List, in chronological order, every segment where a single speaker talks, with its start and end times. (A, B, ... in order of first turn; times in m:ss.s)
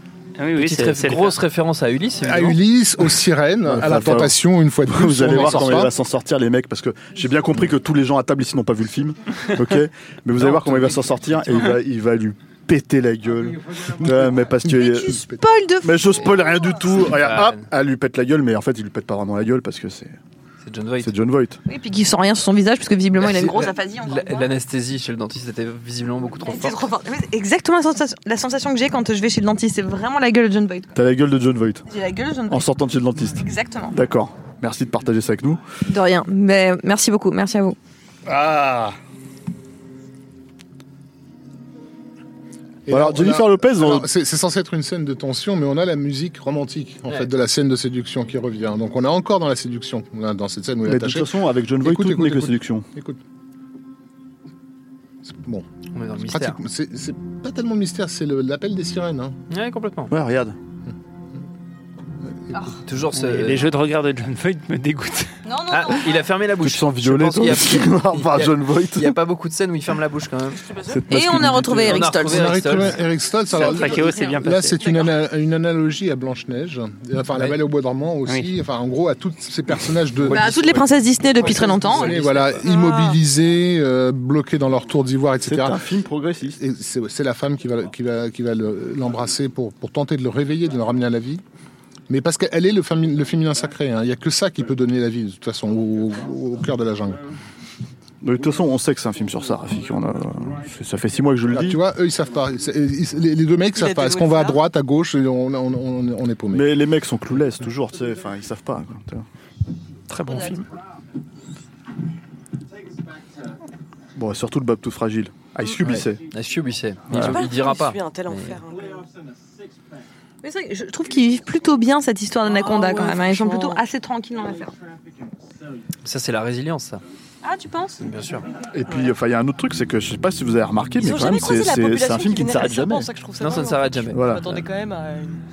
0:00.4-0:01.4 A
0:00.6-0:02.6 B
0:02.2-0:05.9 C
0:03.6-0:15.2 D
0:05.4-0:05.8 B
0:10.4-0:11.7 B
0:14.0-0:14.5 C
0:14.6-0:16.3 E
0:15.1-0:15.4 C
0:15.8-0:20.2 D
0:17.0-0:17.7 B
0:20.6-0:21.1 B
0:21.0-0:21.6 D
0:21.7-0:24.5 E
0:23.2-0:26.8 B
0:26.4-0:30.9 E
0:31.0-0:31.9 D
0:31.9-0:32.7 E
0:32.5-0:35.6 D
0:33.3-0:34.0 E
0:35.9-0:37.8 E
0:38.3-0:38.9 C
0:42.9-0:53.2 C
0:42.9-0:44.1 D
0:50.8-0:52.9 D
0:55.3-0:55.7 C
0:55.9-0:56.6 B
0:56.2-0:59.4 C
0:59.5-1:00.1 B
1:00.1-1:00.6 D
1:02.8-1:03.7 B
1:03.2-1:05.4 A
1:05.4-1:06.2 E
1:05.7-1:10.6 B
1:06.6-1:09.2 D
1:10.9-1:12.1 D
1:11.1-1:12.8 E
1:11.8-1:13.0 B
1:12.2-1:20.8 C
1:13.5-1:15.0 A
1:13.6-1:14.3 E
1:20.3-1:22.2 E
1:21.3-1:25.8 C
1:21.4-1:22.7 B
1:22.6-1:23.2 F
1:25.5-1:26.6 D
1:26.6-1:31.4 C
1:32.1-1:37.2 C
1:38.2-1:41.8 D
1:41.5-1:46.7 C
1:43.8-1:44.6 F
1:46.5-1:49.3 D
1:50.1-1:50.7 A
1:54.2-1:56.2 D
1:55.8-1:58.6 B
1:57.1-1:57.4 D
1:57.1-1:59.1 F
2:00.4-2:04.7 E
2:02.5-2:03.8 F
2:06.0-2:07.0 B
2:07.4-2:08.0 E
2:08.0-2:08.5 B
2:08.7-2:13.1 D
2:08.9-2:09.1 F
2:11.0-2:15.4 F
2:13.4-2:14.6 B
2:14.1-2:14.5 D